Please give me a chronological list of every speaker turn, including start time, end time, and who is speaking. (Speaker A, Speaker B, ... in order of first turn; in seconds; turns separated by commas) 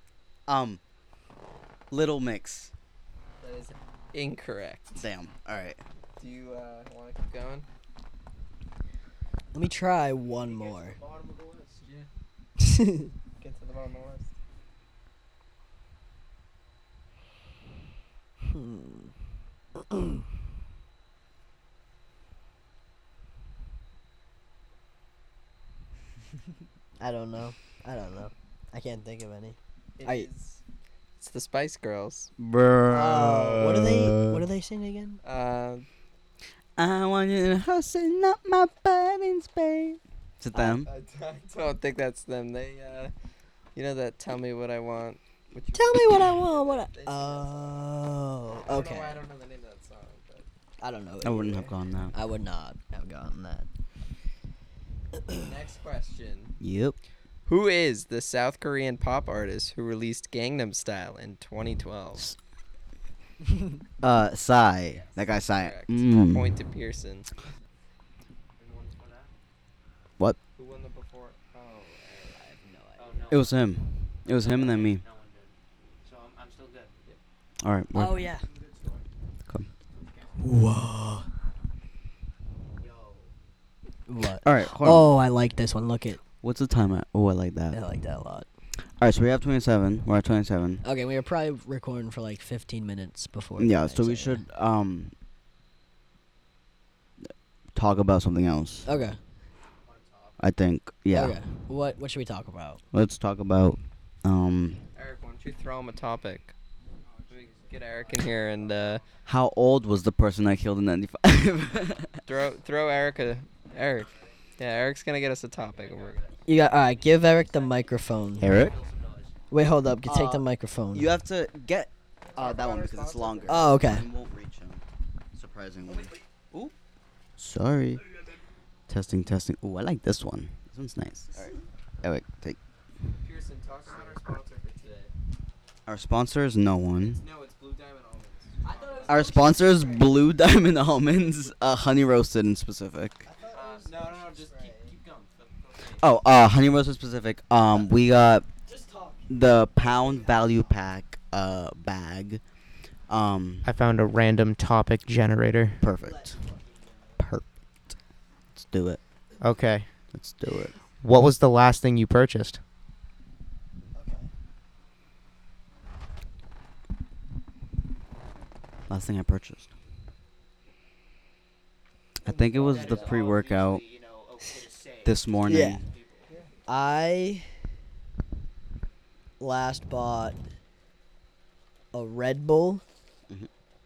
Speaker A: 0.5-0.8, Speaker A: 1.9-2.7, Speaker B: 3.4-5.0, Speaker A: 5.0-5.8, Speaker B: 6.2-7.7, Speaker C: 9.5-11.0, Speaker D: 10.4-11.8, Speaker C: 12.6-13.1, Speaker B: 13.4-14.3, Speaker C: 18.4-19.1, Speaker C: 19.9-20.2, Speaker C: 27.0-30.3, Speaker B: 30.0-30.6, Speaker B: 31.2-32.3, Speaker A: 32.4-34.5, Speaker C: 32.9-35.2, Speaker B: 35.2-35.9, Speaker A: 36.8-40.9, Speaker C: 40.5-40.8, Speaker B: 40.8-43.1, Speaker B: 43.8-47.8, Speaker C: 45.7-49.2, Speaker B: 48.7-50.5, Speaker C: 50.8-53.7, Speaker A: 51.2-52.1, Speaker C: 55.2-55.5, Speaker B: 55.4-56.5, Speaker A: 56.6-57.0, Speaker B: 57.5-62.3, Speaker A: 64.0-66.6, Speaker B: 65.0-67.3, Speaker D: 68.6-69.3, Speaker B: 70.6-72.6, Speaker C: 72.6-73.2, Speaker D: 73.0-73.7, Speaker A: 73.3-75.0, Speaker D: 74.3-75.5, Speaker D: 76.0-76.9, Speaker A: 77.6-78.2, Speaker C: 77.9-78.5, Speaker D: 78.4-79.1, Speaker D: 79.9-80.4, Speaker C: 80.4-81.3, Speaker D: 82.8-83.3, Speaker C: 84.1-86.2, Speaker A: 84.4-85.1, Speaker A: 86.4-87.8, Speaker C: 87.7-88.5, Speaker A: 89.0-90.8, Speaker C: 90.8-94.4, Speaker A: 93.6-95.1, Speaker A: 97.8-98.9, Speaker C: 98.9-99.2, Speaker D: 99.8-100.5, Speaker A: 100.4-101.4, Speaker C: 101.1-102.8, Speaker A: 102.9-104.8, Speaker B: 105.0-106.5, Speaker D: 107.0-109.1, Speaker B: 107.3-109.0, Speaker A: 109.3-112.2, Speaker B: 112.2-116.2, Speaker D: 113.7-114.4, Speaker D: 115.6-119.4, Speaker C: 116.5-118.6, Speaker A: 118.4-118.7, Speaker C: 119.5-121.1, Speaker A: 120.1-124.8, Speaker B: 122.3-123.7, Speaker C: 123.5-124.1, Speaker A: 125.3-126.7, Speaker B: 125.9-126.2, Speaker A: 127.4-128.0, Speaker A: 128.9-131.5, Speaker A: 132.0-132.6, Speaker B: 133.2-135.1, Speaker D: 133.8-134.3, Speaker A: 135.9-137.2, Speaker B: 137.0-139.3, Speaker C: 138.6-139.8, Speaker D: 138.7-139.8, Speaker A: 139.1-143.3, Speaker D: 143.2-146.1, Speaker B: 143.5-144.9, Speaker A: 146.0-148.5, Speaker C: 148.7-149.3, Speaker A: 149.3-152.4, Speaker D: 149.9-150.6, Speaker A: 153.1-153.7, Speaker D: 153.7-155.9, Speaker A: 155.8-156.4, Speaker C: 156.0-157.2, Speaker A: 157.2-157.5, Speaker A: 158.6-159.0, Speaker D: 159.4-159.9, Speaker A: 160.1-160.7, Speaker D: 161.0-162.6, Speaker C: 163.9-164.3, Speaker A: 168.9-169.7, Speaker A: 172.2-173.8, Speaker B: 172.5-173.2, Speaker D: 172.5-176.3, Speaker A: 175.1-175.8, Speaker C: 175.5-175.8, Speaker C: 176.7-177.5, Speaker C: 179.4-180.4, Speaker C: 181.9-182.8